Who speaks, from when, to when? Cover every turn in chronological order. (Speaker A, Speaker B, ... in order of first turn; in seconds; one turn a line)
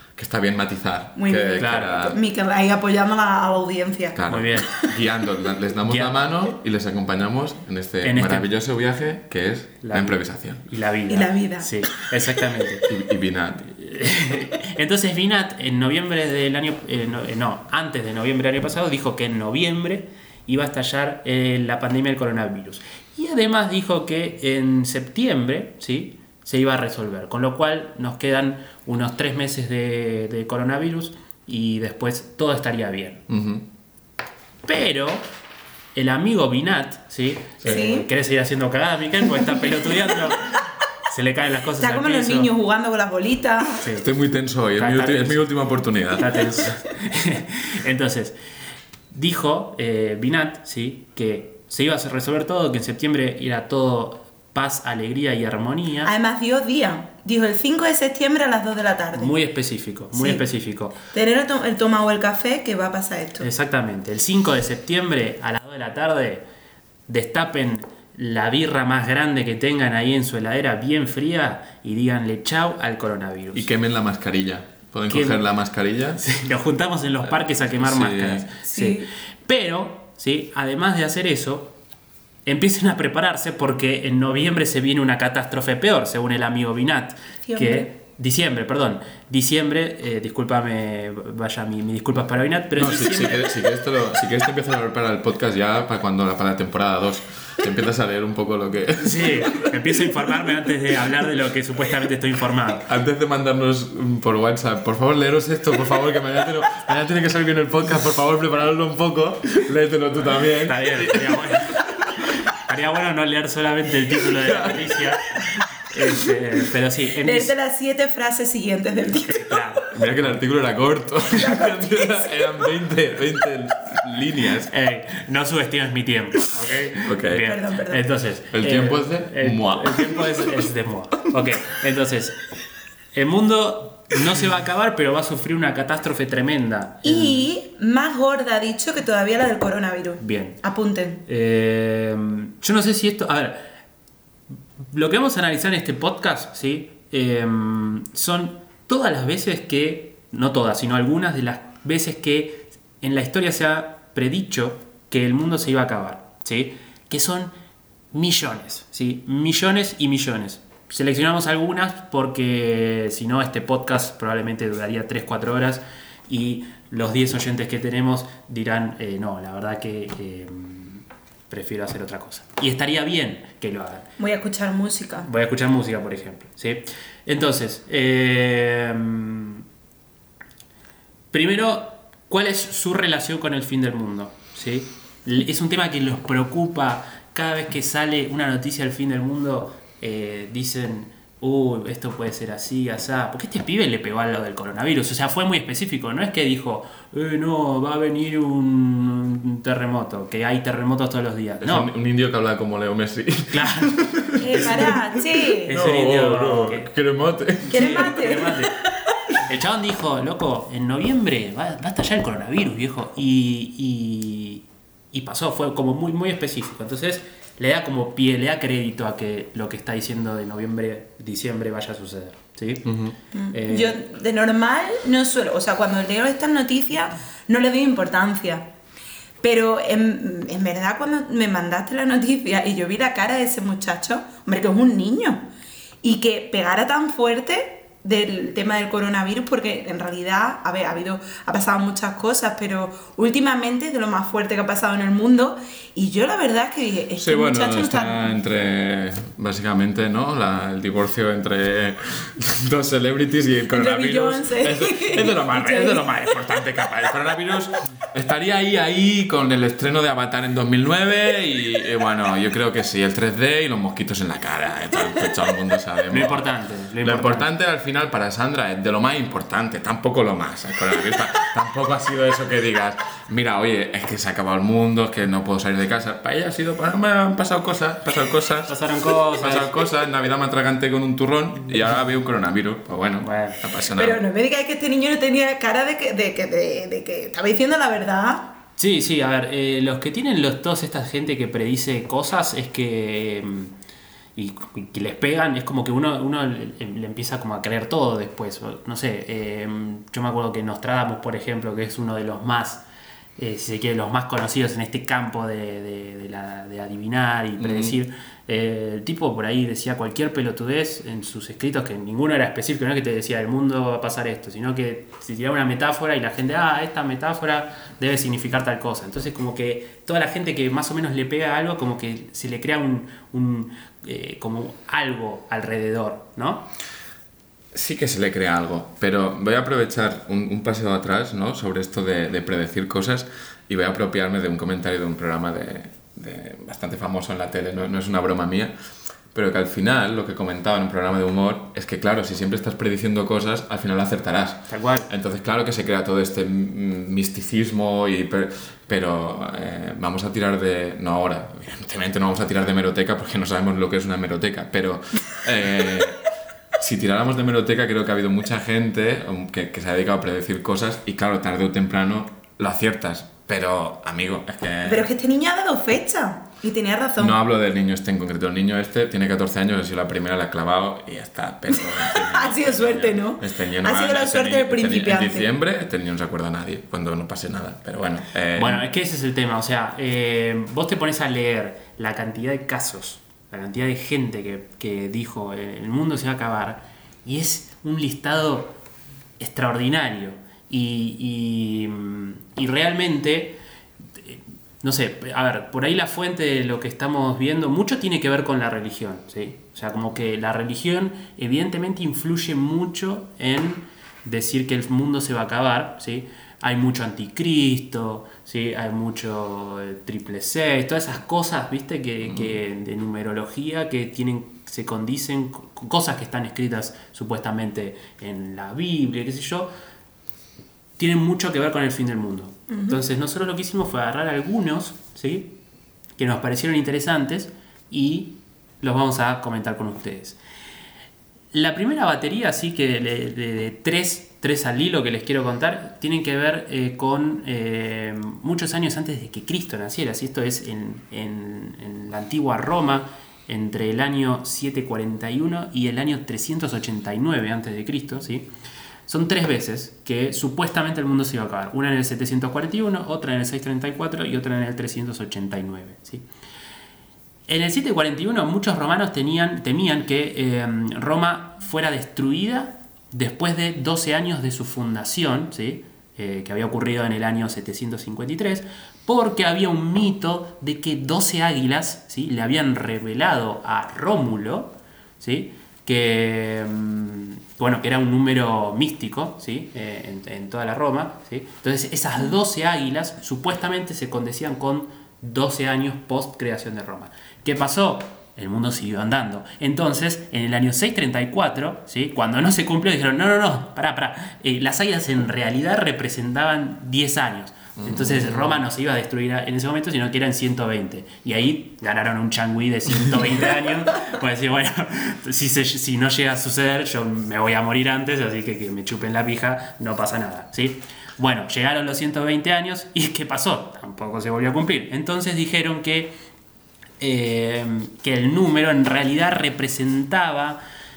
Speaker A: 0.1-2.2
Speaker B: 1.2-4.9
Speaker C: 1.6-2.0
Speaker A: 4.2-10.6
Speaker C: 4.3-4.8
Speaker C: 5.9-6.2
Speaker C: 8.0-8.5
Speaker C: 9.8-12.8
Speaker B: 11.1-11.8
Speaker A: 12.9-13.8
Speaker C: 13.8-33.2
Speaker A: 33.3-33.7
Speaker C: 34.7-35.3
Speaker C: 36.0-42.5
Speaker B: 37.6-38.1
Speaker B: 41.8-43.9
Speaker C: 43.8-44.1
Speaker A: 44.0-46.7
Speaker C: 44.7-45.5
Speaker C: 46.1-48.4
Speaker C: 49.1-56.1
Speaker B: 56.0-59.4
Speaker C: 59.1-61.0
Speaker B: 60.1-60.4
Speaker B: 61.1-63.5
Speaker C: 63.4-66.5
Speaker C: 67.1-73.7
Speaker A: 73.5-76.2
Speaker C: 75.1-75.5
Speaker C: 76.2-81.8
Speaker A: 77.2-78.5
Speaker B: 78.7-79.1
Speaker C: 82.5-93.5
Speaker B: 87.5-87.9
Speaker A: 92.7-100.2
Speaker C: 99.0-102.9
Speaker A: 102.8-111.9
Speaker C: 110.6-111.8
Speaker C: 112.7-115.3
Speaker A: 114.4-115.1
Speaker C: 115.9-117.5
Speaker B: 117.2-119.6
Speaker C: 119.3-119.9
Speaker A: 119.9-124.7
Speaker B: 121.3-122.3
Speaker C: 124.7-132.4
Speaker A: 127.0-127.5
Speaker B: 127.5-128.0
Speaker A: 128.5-130.7
Speaker C: 133.1-137.5
Speaker B: 137.0-141.2
Speaker C: 140.2-140.6
Speaker C: 141.3-143.7
Speaker C: 144.9-157.5
Speaker C: 158.1-174.1
Speaker B: 174.2-175.3
Speaker C: 175.2-179.6
Speaker C: 181.3-201.9
Speaker A: 201.6-208.0
Speaker C: 203.5-204.0
Speaker B: 204.4-205.7
Speaker C: 204.6-204.9
Speaker C: 205.7-206.9
Speaker B: 207.7-208.7
Speaker C: 207.7-208.8
Speaker C: 209.5-222.9
Speaker A: 222.8-223.2
Speaker B: 223.3-228.7
Speaker C: 223.5-224.0
Speaker B: 229.4-235.4
Speaker B: 236.0-248.3
Speaker A: 247.2-266.4
Speaker B: 253.7-256.1
Speaker C: 266.1-267.5
Speaker A: 267.0-278.8
Speaker C: 278.7-279.8
Speaker A: 279.4-284.2
Speaker C: 283.2-283.6
Speaker B: 283.9-288.5
Speaker C: 288.8-293.7
Speaker C: 294.4-302.8
Speaker C: 303.4-326.7
Speaker A: 307.6-307.9
Speaker A: 327.7-338.7
Speaker A: 339.3-356.2
Speaker C: 344.7-345.1
Speaker A: 356.8-365.1
Speaker B: 364.9-367.4
Speaker A: 367.2-378.8
Speaker B: 372.1-375.5
Speaker C: 378.6-388.8
Speaker C: 389.4-393.6
Speaker C: 394.2-419.7
Speaker A: 412.2-412.6
Speaker C: 421.0-425.6
Speaker B: 422.7-423.0
Speaker C: 426.2-430.4
Speaker C: 431.5-448.5
Speaker C: 449.1-456.2
Speaker C: 457.5-516.1
Speaker A: 497.8-498.6
Speaker C: 517.0-520.6